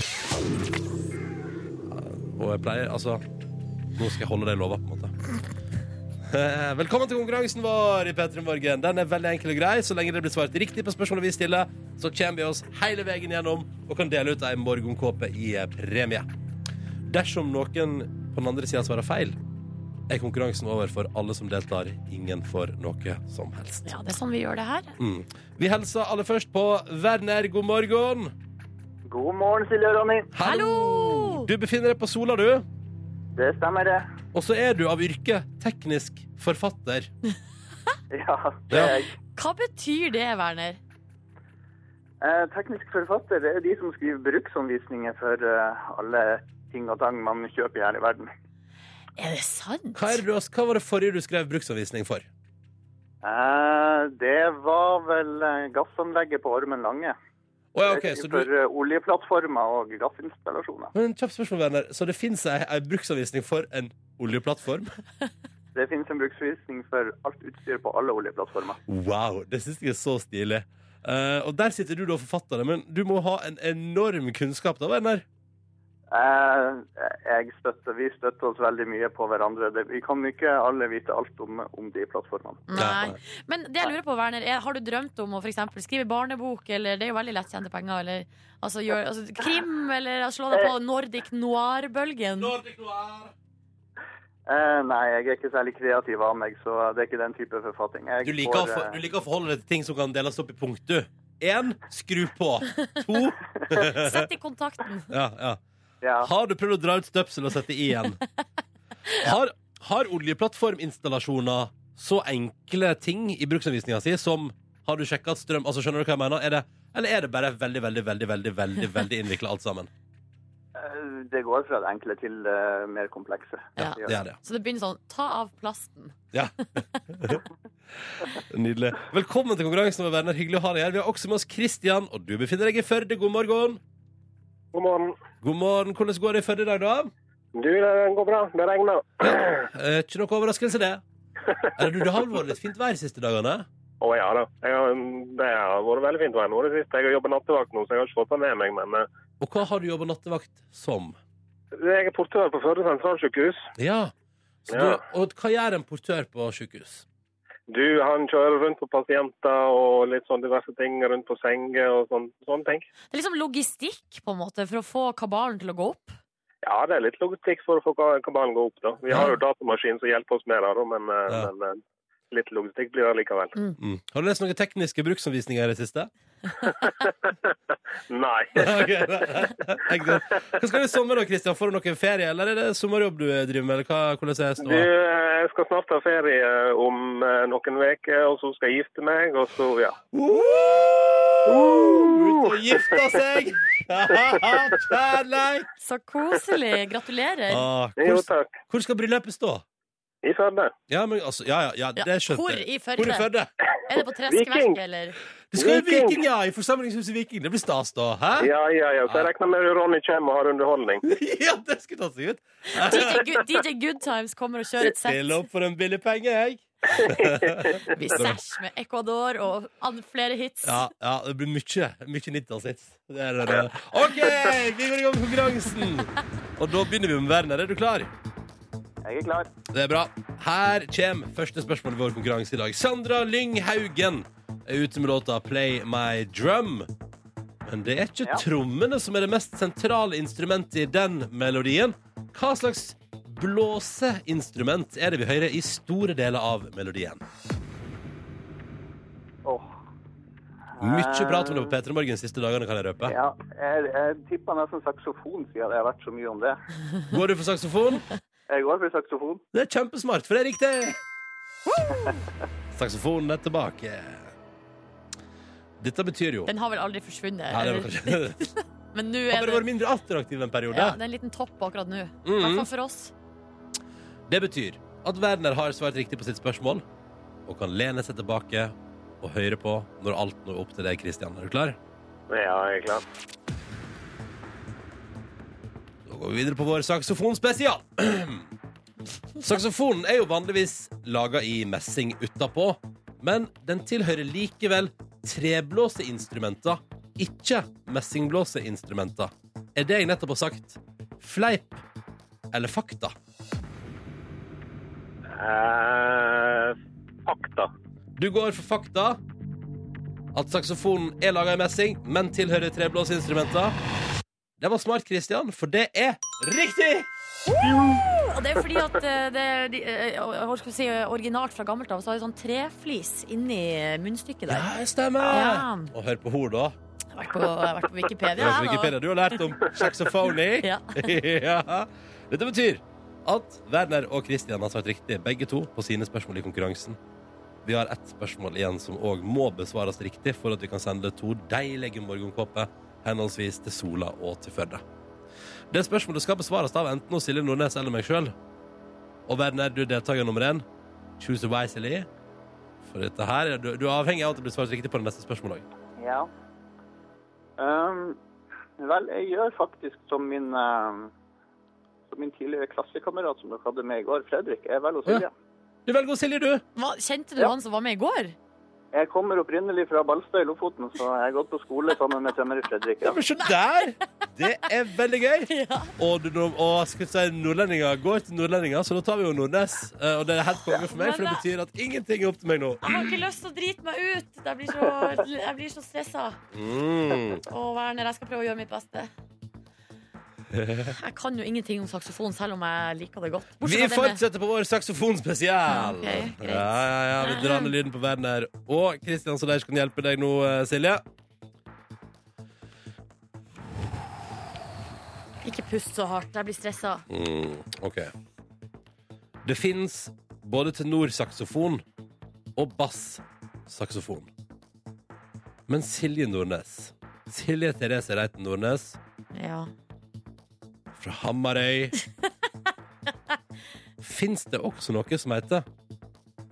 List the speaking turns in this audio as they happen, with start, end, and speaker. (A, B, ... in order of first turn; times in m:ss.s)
0:01.9-0:03.2 A
0:04.0-0:05.1 A
0:06.3-0:16.3 A
0:17.1-0:19.4 A
0:20.1-0:23.9 A
0:23.9-0:25.0 B
0:25.0-0:28.3 A
0:29.1-0:30.3 C
0:30.3-0:32.7 A
0:30.4-0:31.5 B
0:33.4-0:34.0 C
0:34.3-0:37.1 A
0:38.1-0:39.1 C
0:38.7-0:39.0 A
0:39.4-0:40.8 B
0:42.2-0:48.3 C
0:49.2-0:50.2 B
0:50.0-0:52.3 A
0:53.2-0:57.2 C
0:57.7-0:58.5 A
0:57.9-1:00.9 C
1:00.9-1:04.9 A
1:05.8-1:08.8 C
1:08.9-1:15.2 A
1:16.1-1:22.7 C
1:22.7-1:32.5 B
1:22.8-1:23.2 A
1:32.4-1:33.3 A
1:34.5-1:39.0 C
1:38.2-1:44.3 A
1:44.0-1:45.1 B
1:45.1-1:45.6 A
1:46.0-1:46.3 C
1:46.2-1:48.2 A
1:49.2-1:59.9 A
2:00.8-2:04.2 C
2:03.8-2:06.2 B
2:03.8-2:04.4 A
2:06.3-2:07.4 A
2:08.5-2:13.8 A
2:14.7-2:15.2 D
2:15.4-2:17.1 A
2:17.6-2:19.6 D
2:19.2-2:21.0 A
2:21.8-2:23.7 A
2:24.0-2:29.1 D
2:29.4-2:31.2 A
2:31.8-2:33.6 D
2:33.8-2:34.1 A
2:34.7-2:37.1 A
2:34.7-2:35.0 D
2:37.7-2:42.9 D
2:43.1-2:46.2 B
2:46.6-2:51.8 D
2:52.3-2:53.6 D
2:53.8-2:56.1 A
2:56.7-2:57.3 D
2:58.1-2:58.8 D
2:58.6-3:04.9 A
3:04.6-3:10.0 D
3:10.1-3:15.7 A
3:11.5-3:12.8 D
3:15.8-3:17.6 B
3:17.5-3:19.6 A
3:18.0-3:18.6 D
3:20.2-3:20.7 D
3:20.9-3:23.5 A
3:22.0-3:23.3 B
3:23.9-3:25.2 B
3:24.3-3:24.8 D
3:25.5-3:28.5 A
3:25.6-3:26.2 D
3:28.4-3:31.0 D
3:31.0-3:33.2 A
3:32.8-3:35.2 B
3:34.8-3:38.4 A
3:37.0-3:37.8 D
3:37.9-3:40.8 B
3:40.6-3:48.1 A
3:49.0-3:49.5 C
3:49.7-3:56.9 A
3:57.6-4:07.2 A
4:09.4-4:09.7 C
4:10.8-4:11.7 C
4:10.8-4:13.2 A
4:13.0-4:16.6 C
4:17.1-4:18.0 A
4:18.5-4:19.4 C
4:19.5-4:21.0 A
4:22.7-4:24.3 A
4:25.8-4:26.5 A
4:26.5-4:29.6 B
4:27.5-4:28.4 A
4:29.3-4:31.0 A
4:30.7-4:33.1 B
4:32.2-4:32.7 A
4:34.3-4:36.8 A
4:37.5-4:41.8 A
4:42.3-4:43.0 D
4:46.1-4:48.5 A
4:49.4-5:01.8 A
5:02.5-5:03.2 A
5:05.3-5:07.7 D
5:08.2-5:09.2 A
5:10.3-5:13.8 A
5:14.6-5:17.1 A
5:17.6-5:24.7 B
5:24.5-5:26.8 A
5:25.3-5:25.9 B
5:27.2-5:28.9 B
5:28.3-5:37.0 A
5:30.6-5:31.0 B
5:37.6-5:44.8 A
5:45.7-5:48.4 A
5:49.3-5:50.6 A
5:51.2-5:52.1 A
5:52.8-5:55.7 A
5:56.0-5:56.3 C
5:57.6-5:58.2 C
5:58.8-6:01.1 C
6:02.1-6:05.3 C
6:05.9-6:06.6 A
6:06.8-6:08.4 B
6:08.9-6:13.2 C
6:13.0-6:23.1 A
6:15.5-6:15.9 B
6:20.8-6:21.4 B
6:22.8-6:26.4 B
6:26.5-6:27.4 A
6:27.5-6:29.1 B
6:30.5-6:30.9 A
6:30.9-6:34.2 B
6:33.6-6:41.0 A
6:35.7-6:37.7 B
6:45.4-6:47.0 B
6:47.1-6:48.1 A
6:49.4-6:51.8 A
6:52.6-6:54.3 A
6:55.7-6:59.0 A
6:59.3-6:59.7 B
7:01.0-7:02.0 A
7:04.0-7:05.6 A